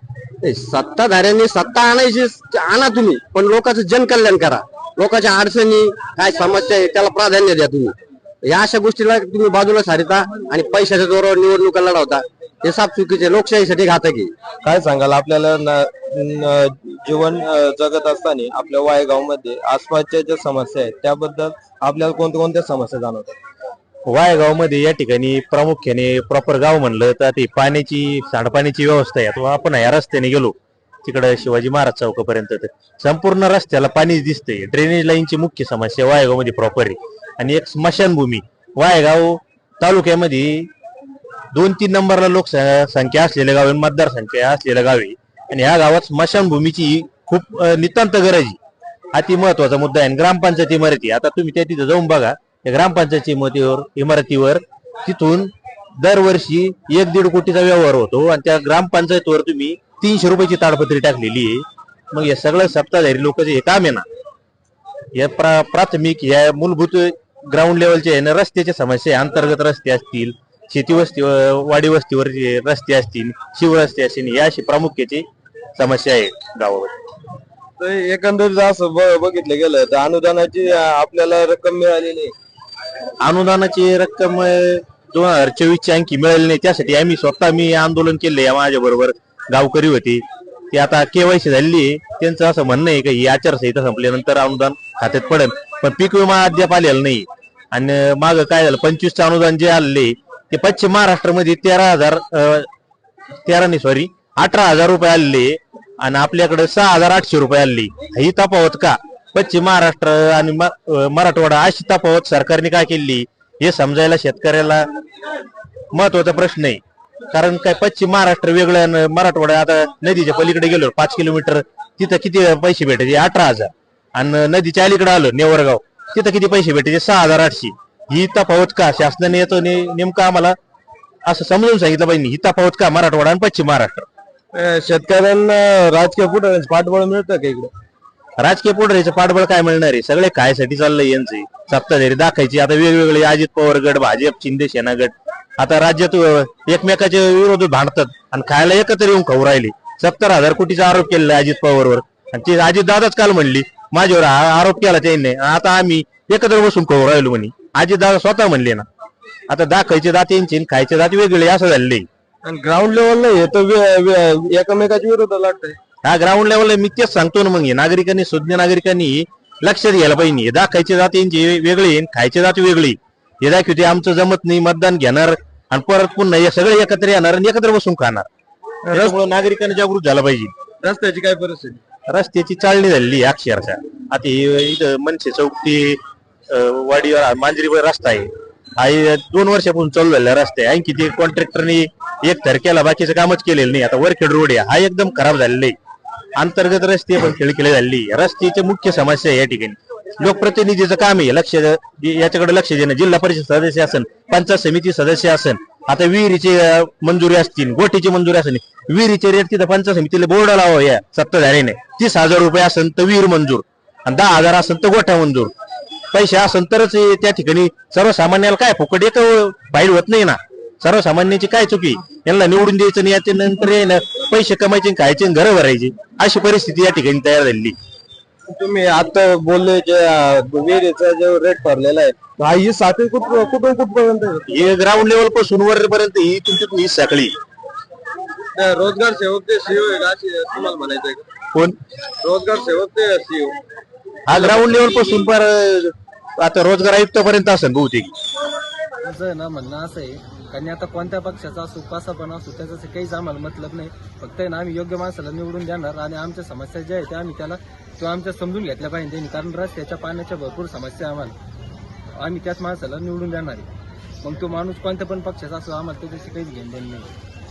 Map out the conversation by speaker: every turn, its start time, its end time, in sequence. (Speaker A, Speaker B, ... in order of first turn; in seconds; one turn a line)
Speaker A: 0.4-14.3
Speaker B: 14.6-23.4
Speaker C: 24.1-40.7
Speaker C: 41.5-48.6
Speaker C: 49.1-64.0
Speaker C: 65.1-75.2
Speaker C: 75.8-76.9
Speaker B: 77.8-82.3
Speaker C: 83.2-102.7
Speaker C: 103.4-114.9
Speaker C: 115.9-130.6
Speaker C: 131.2-134.1
Speaker B: 134.5-137.7
Speaker C: 138.4-158.8
Speaker C: 159.5-162.1
Speaker B: 162.4-165.8
Speaker C: 166.0-178.3
Speaker B: 178.9-179.2
Speaker C: 178.9-180.5
Speaker B: 180.8-181.8
Speaker C: 182.1-195.8
Speaker C: 196.4-215.5
Speaker C: 216.1-227.8
Speaker B: 228.5-234.5
Speaker C: 234.5-237.3
Speaker B: 238.5-241.2
Speaker B: 242.2-243.6
Speaker C: 244.3-248.1
Speaker B: 244.3-244.7
Speaker D: 249.0-261.3
Speaker D: 262.2-263.7
Speaker D: 264.2-267.1